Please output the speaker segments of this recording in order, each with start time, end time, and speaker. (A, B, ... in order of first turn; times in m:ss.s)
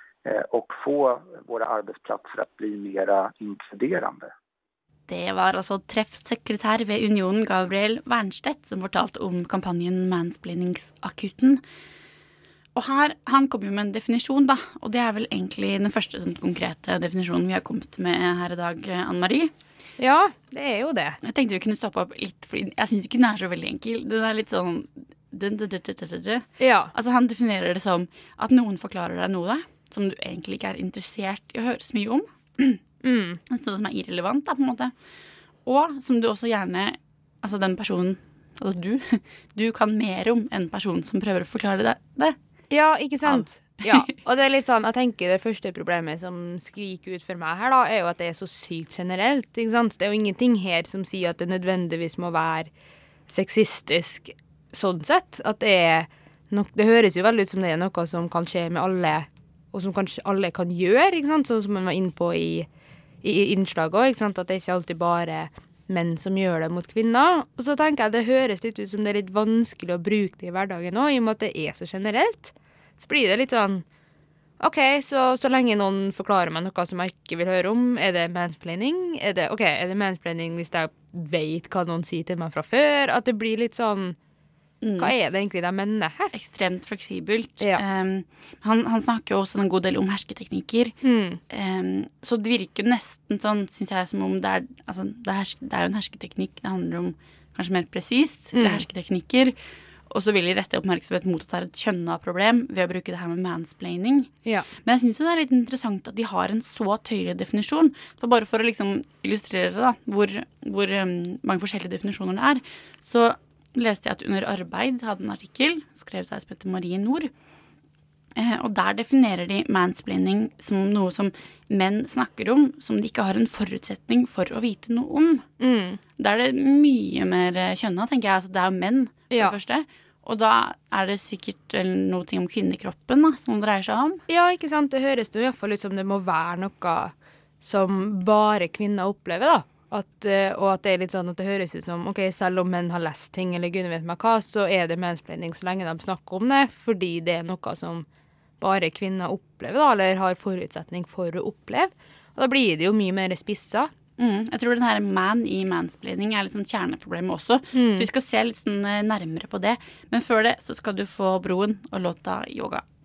0:00.2-0:04.3 A
0:05.1-0:11.6 B
0:12.7-0:19.5 B
0:20.0-0:21.2 C
0:21.2-0:32.8 B
0:26.6-0:26.9 C
0:33.0-0:33.4 C
0:33.5-0:34.9 B
0:35.6-0:42.4 B
0:42.7-0:52.7 C
0:43.2-0:44.0 B
0:53.3-1:02.7 C
1:03.2-1:13.8 C
1:14.6-1:24.2 C
1:24.8-1:25.1 B
1:25.0-1:26.3 C
1:26.3-1:31.0 B
1:31.0-1:31.4 C
1:31.5-1:39.5 B
1:38.5-1:38.8 C
1:40.1-1:44.3 B
1:44.8-1:57.3 B
1:58.3-2:05.4 B
2:05.6-2:06.0 C
2:06.2-2:14.2 B
2:09.3-2:09.6 C
2:14.3-2:28.0 C
2:28.6-2:33.9 C
2:34.2-2:42.8 B
2:37.7-2:38.1 C